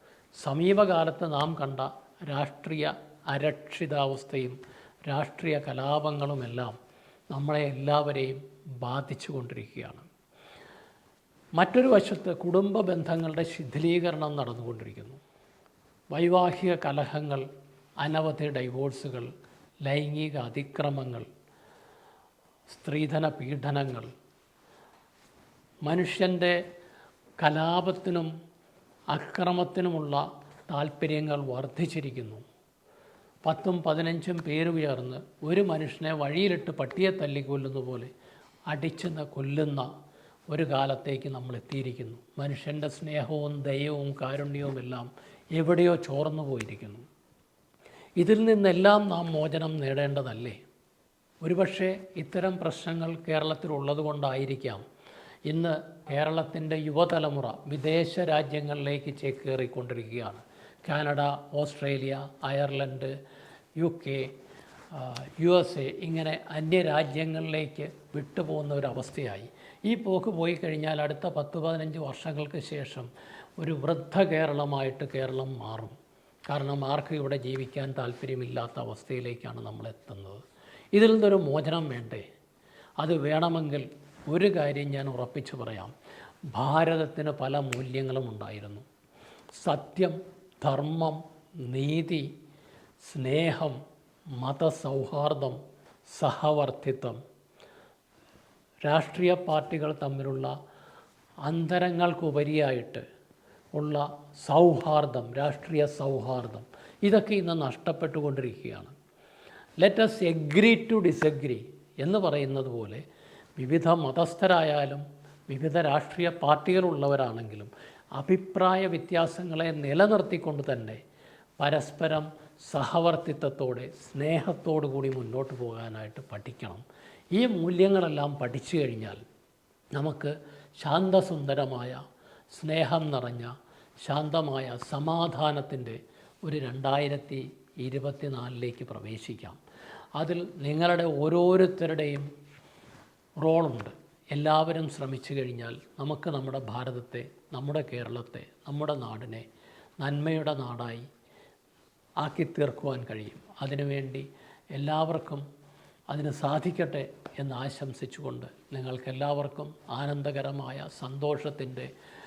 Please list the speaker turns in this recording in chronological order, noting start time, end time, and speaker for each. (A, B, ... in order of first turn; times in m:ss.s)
0:00.4-0:06.8 A
0:07.3-0:10.1 A
0:11.6-0:15.2 A
0:16.1-0:17.4 A
0:18.0-0:19.3 A
0:19.9-0:21.3 A
0:22.7-0:24.1 A
0:25.9-0:26.6 A
0:27.4-0:28.3 A
0:29.1-0:32.4 A
0:33.4-0:38.1 A
0:38.7-0:39.9 A
0:40.5-0:47.0 A
0:48.2-0:50.6 A
0:51.4-0:54.8 A
0:55.5-1:03.1 A
1:03.8-1:04.3 A
1:04.9-1:16.0 A
1:16.5-1:20.4 A
1:20.9-1:22.3 A
1:23.0-1:25.9 A
1:26.5-1:28.8 A
1:29.6-1:32.3 A
1:33.0-1:33.8 A
1:34.4-1:37.2 A
1:38.9-1:40.5 A
1:41.4-1:43.0 A
1:43.8-1:48.9 A
1:49.8-1:53.0 A
1:53.6-2:01.0 A
2:01.6-2:09.2 A
2:10.0-2:12.0 A
2:12.5-2:13.5 A
2:14.0-2:19.6 A
2:20.2-2:22.3 A
2:23.4-2:29.5 A
2:30.0-2:31.1 A
2:32.2-2:35.4 A
2:36.1-2:41.9 A